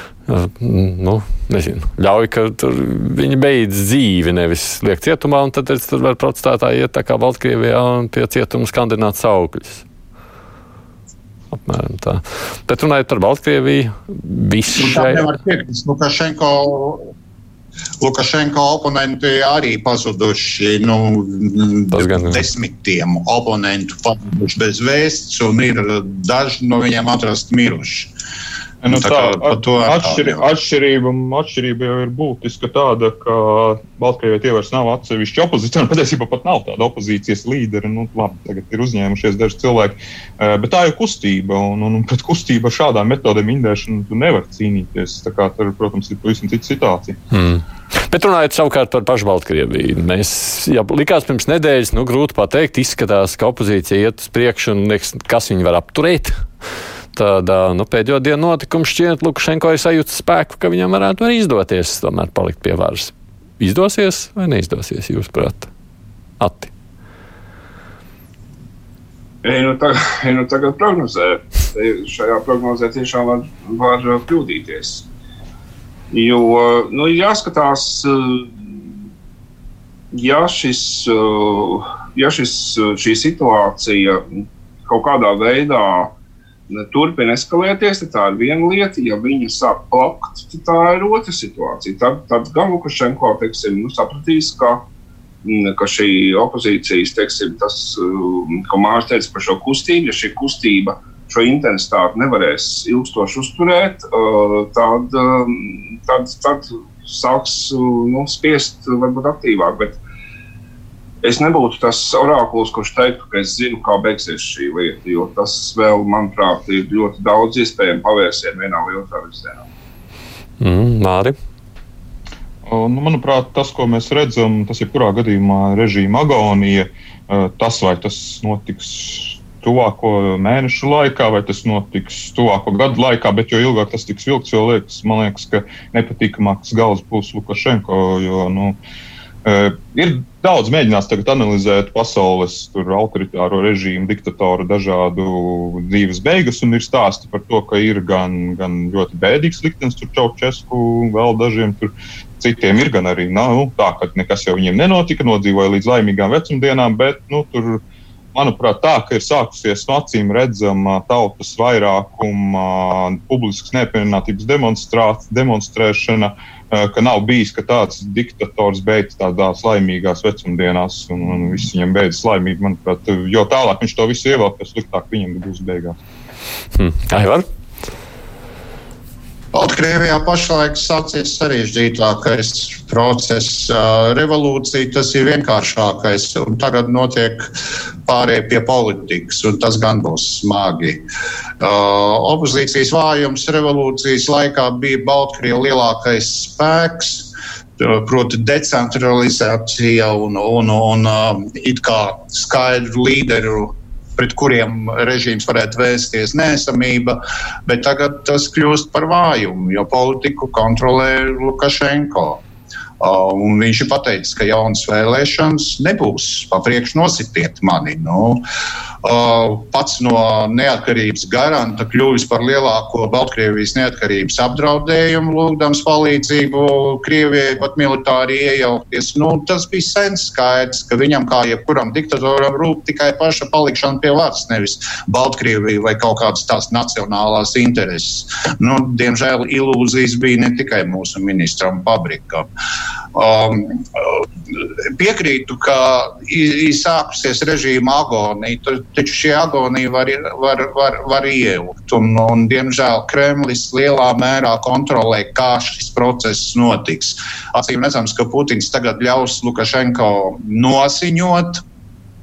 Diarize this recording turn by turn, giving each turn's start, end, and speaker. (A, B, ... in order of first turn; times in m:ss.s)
0:00.3-0:09.8 A
0:11.5-0:15.3 A
0:14.8-0:17.1 B
0:18.0-0:28.1 B
0:21.9-0:22.4 A
0:28.8-0:47.2 C
0:28.9-0:30.5 B
0:47.3-0:56.5 A
0:57.2-1:05.7 A
1:06.4-1:06.7 A
1:09.4-1:15.1 D
1:16.1-1:18.8 D
1:20.1-1:24.2 D
1:24.9-1:26.2 D
1:26.7-1:34.9 D
1:35.4-1:50.0 D
1:51.2-1:59.7 D
2:00.6-2:01.4 A
2:02.7-2:18.8 C
2:19.4-2:37.8 C
2:38.3-2:56.0 C
2:56.8-2:57.5 A
2:59.5-3:07.5 B
3:08.0-3:11.0 B
3:11.6-3:32.4 B
3:33.0-3:38.4 B
3:39.0-4:02.5 B
4:03.1-4:21.6 B